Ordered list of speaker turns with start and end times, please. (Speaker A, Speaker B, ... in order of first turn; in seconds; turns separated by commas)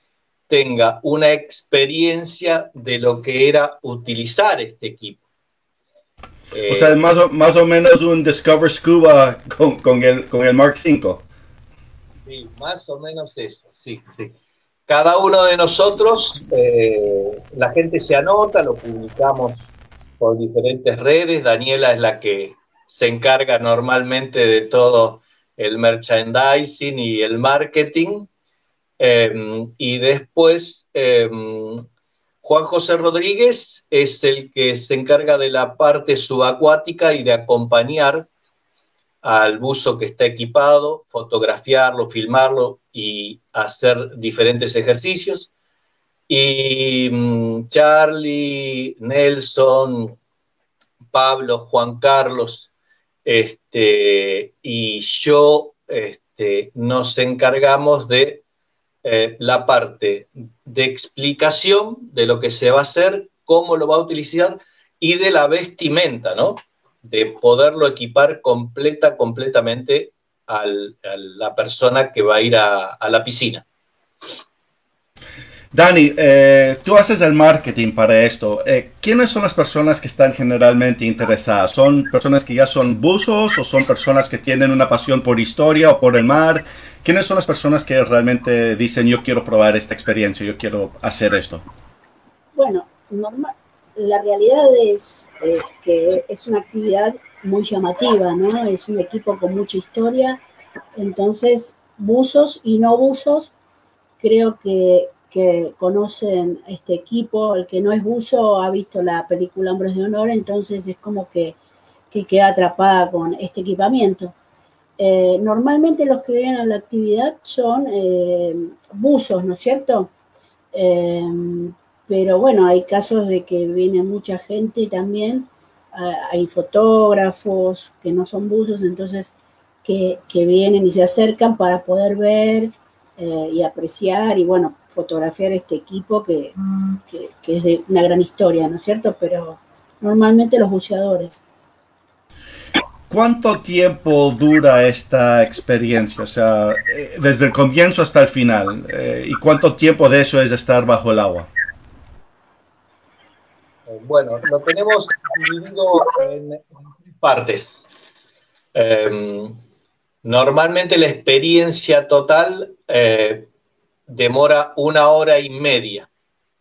Speaker A: 0.5-5.2, Speaker A: 6.5-6.9, Speaker B: 6.7-11.2, Speaker A: 12.2-14.3, Speaker A: 14.9-28.3, Speaker A: 29.0-31.8, Speaker A: 32.4-38.3, Speaker A: 39.2-45.5, Speaker A: 46.3-50.2, Speaker A: 51.1-52.7, Speaker A: 53.2-58.4, Speaker A: 59.0-73.6, Speaker B: 75.7-91.6, Speaker C: 92.5-100.4, Speaker C: 101.0-103.5, Speaker C: 104.2-111.6, Speaker C: 112.1-114.3, Speaker C: 115.0-120.1, Speaker C: 120.7-129.3, Speaker C: 129.8-136.5, Speaker C: 137.1-141.4, Speaker B: 143.1-151.5, Speaker A: 153.8-157.9, Speaker A: 158.7-159.6, Speaker A: 160.2-163.5, Speaker A: 164.1-166.1